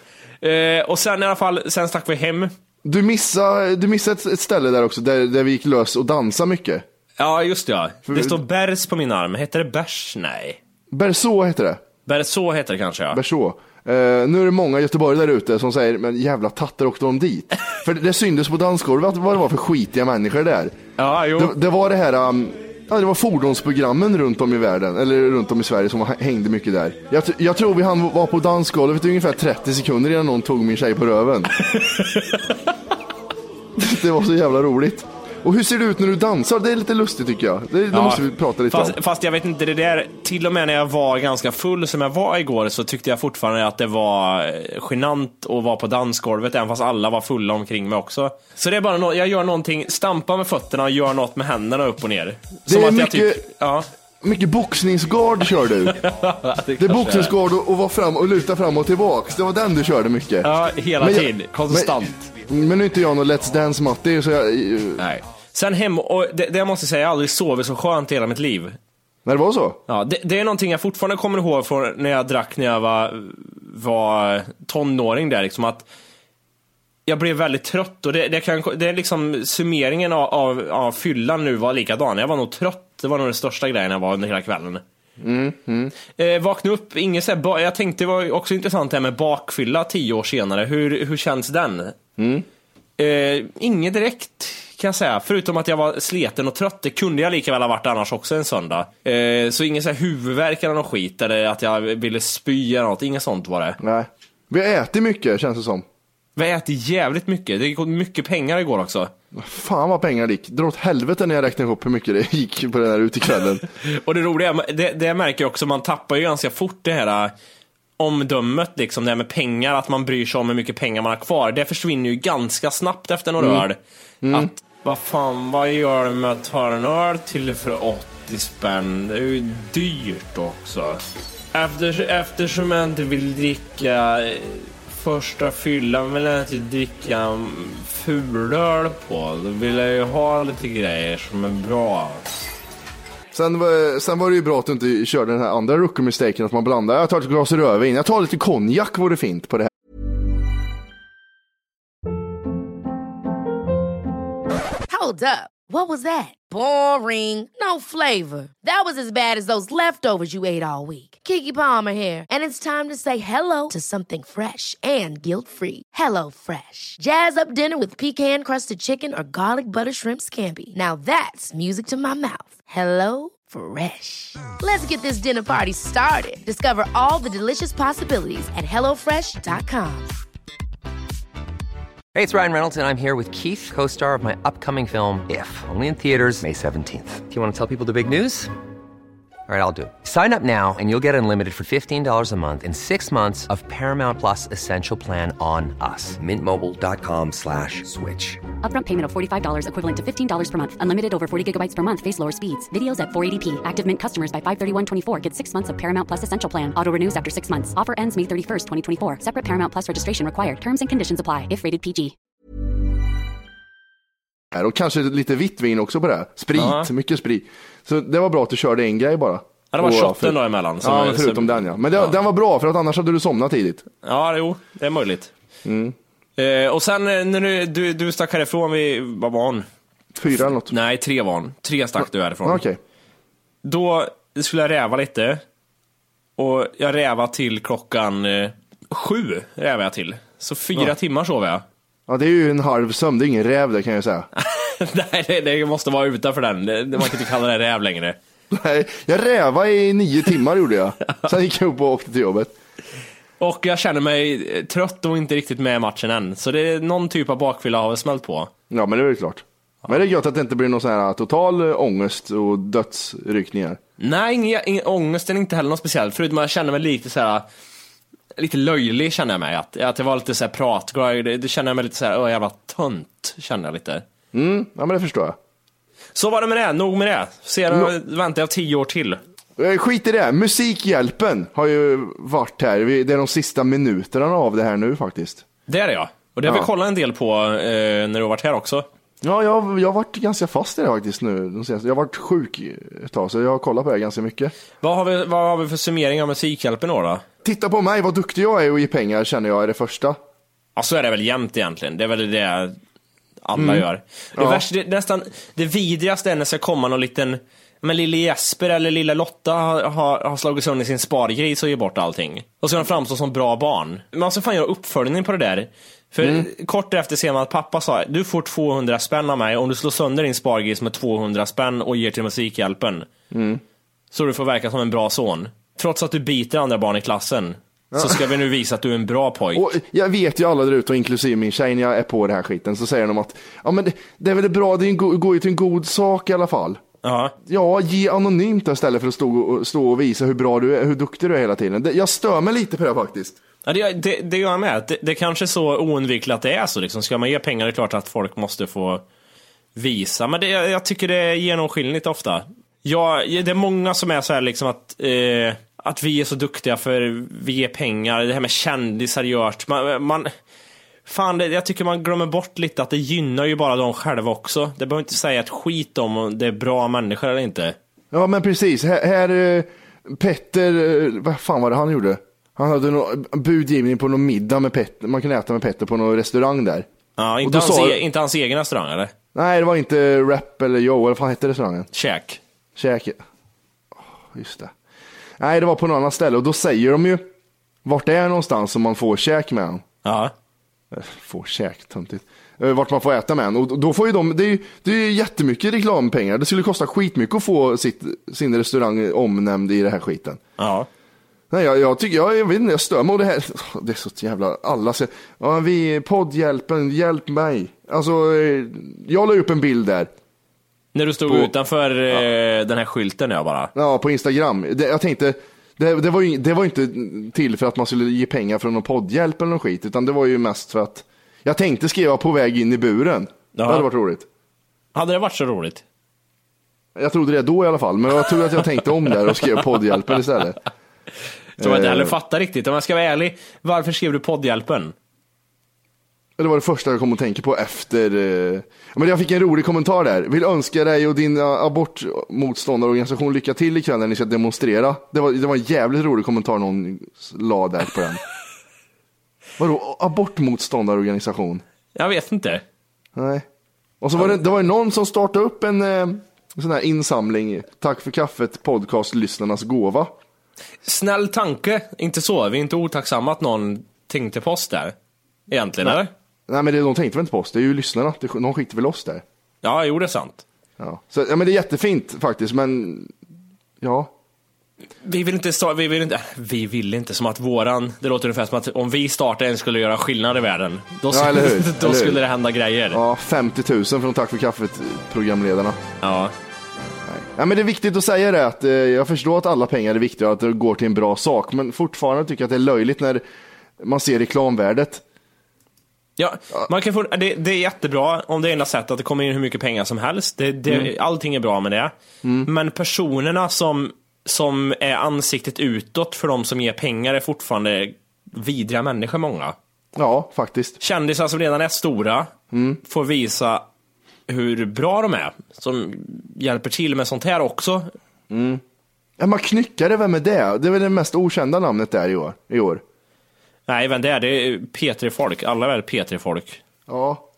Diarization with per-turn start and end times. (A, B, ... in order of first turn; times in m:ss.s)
0:00.4-0:02.5 A
0:02.8-0:06.8 B
0:07.2-0:10.6 A
0:08.1-0:08.4 B
0:10.9-0:11.8 B
0:12.0-0:13.2 A
0:13.1-0:20.8 B
0:21.0-0:21.5 A
0:21.4-0:31.5 B
0:31.6-0:32.6 A
0:33.8-0:39.0 B
0:37.9-0:53.9 A
0:52.7-0:53.4 B
0:54.2-0:56.0 B
0:55.9-0:57.3 A
0:56.8-1:05.0 B
1:00.4-1:02.3 A
1:05.0-1:08.8 A
1:09.2-1:09.8 B
1:09.9-1:15.8 A
1:17.0-1:24.8 A
1:25.2-1:25.9 B
1:26.2-1:31.9 A
1:32.2-1:32.4 B
1:33.0-1:43.8 A
1:43.8-1:45.8 B
1:46.4-1:49.1 A
1:49.3-1:53.7 B
1:53.8-1:57.3 A
1:58.0-2:03.8 A
2:03.4-2:03.6 B
2:04.2-2:04.5 B
2:04.3-2:11.0 A
2:11.5-2:22.3 A
2:23.3-2:29.7 B
2:34.9-3:00.1 C
3:02.1-3:08.5 D
3:09.5-3:18.4 D
3:18.6-3:32.1 E
3:34.5-3:43.8 B
3:36.5-3:36.9 A
3:39.7-3:42.1 A
3:44.0-3:45.3 A
3:45.6-3:46.0 B
3:46.4-3:49.6 A
3:50.2-3:50.7 B
3:50.3-3:52.6 A
3:52.4-3:52.8 B
3:53.6-3:55.4 A
3:56.4-4:01.6 A
4:02.1-4:04.3 B
4:04.4-4:08.2 A
4:08.5-4:12.5 B
4:13.4-4:18.5 A
4:18.7-4:23.8 B
4:24.0-4:27.4 A
4:28.4-4:34.0 A
4:34.3-4:35.4 B
4:36.1-4:39.2 A
4:39.6-4:45.4 B
4:45.7-4:48.8 A
4:49.2-4:54.5 B
4:54.8-4:57.2 A
4:57.4-5:00.2 B
5:00.8-5:02.8 A
5:03.4-5:23.1 A
5:03.6-5:03.8 B
5:04.4-5:04.6 B
5:16.2-5:16.5 B
5:23.3-5:23.6 B
5:24.1-5:29.7 A
5:27.9-5:28.3 B
5:29.5-5:36.8 B
5:37.0-5:37.3 A
5:37.4-5:43.4 B
5:43.6-5:49.0 A
5:49.7-6:00.3 A
6:01.0-6:07.8 A
6:08.1-6:16.8 B
6:17.2-6:19.1 A
6:17.4-6:18.0 B
6:19.3-6:21.9 B
6:21.9-6:22.4 A
6:22.7-6:23.2 B
6:24.0-6:24.7 B
6:25.4-6:27.2 B
6:27.8-6:29.8 B
6:30.0-6:30.3 A
6:30.9-6:40.4 B
6:40.6-6:40.9 A
6:41.5-6:50.1 B
6:50.9-6:53.7 A
6:51.3-6:51.5 B
6:53.7-7:04.2 B
7:03.6-7:03.9 A
7:04.9-7:05.8 A
7:07.0-7:10.6 B
7:11.6-7:14.9 A
7:11.6-7:12.1 B
7:16.4-7:28.2 B
7:29.6-7:31.6 B
7:31.9-7:32.6 A
7:33.1-7:33.4 B
7:34.0-7:40.1 B
7:40.8-7:44.9 A
7:45.5-7:46.1 A
7:45.8-7:49.2 B
7:49.6-7:50.4 A
7:50.8-7:53.1 B
7:53.8-7:54.1 B
7:55.0-8:03.0 A
8:01.1-8:02.2 B
8:02.9-8:05.8 B
8:06.0-8:06.3 A
8:07.0-8:13.2 B
8:13.8-8:15.0 B
8:16.2-8:21.9 A
8:22.2-8:22.5 B
8:22.4-8:29.5 A
8:29.9-8:30.8 B
8:30.8-8:32.3 A
8:32.5-8:32.8 B
8:32.8-8:33.6 A
8:34.3-8:37.9 A
8:38.3-8:38.6 B
8:39.2-8:42.8 B
8:43.7-8:46.6 A
8:46.9-8:47.2 B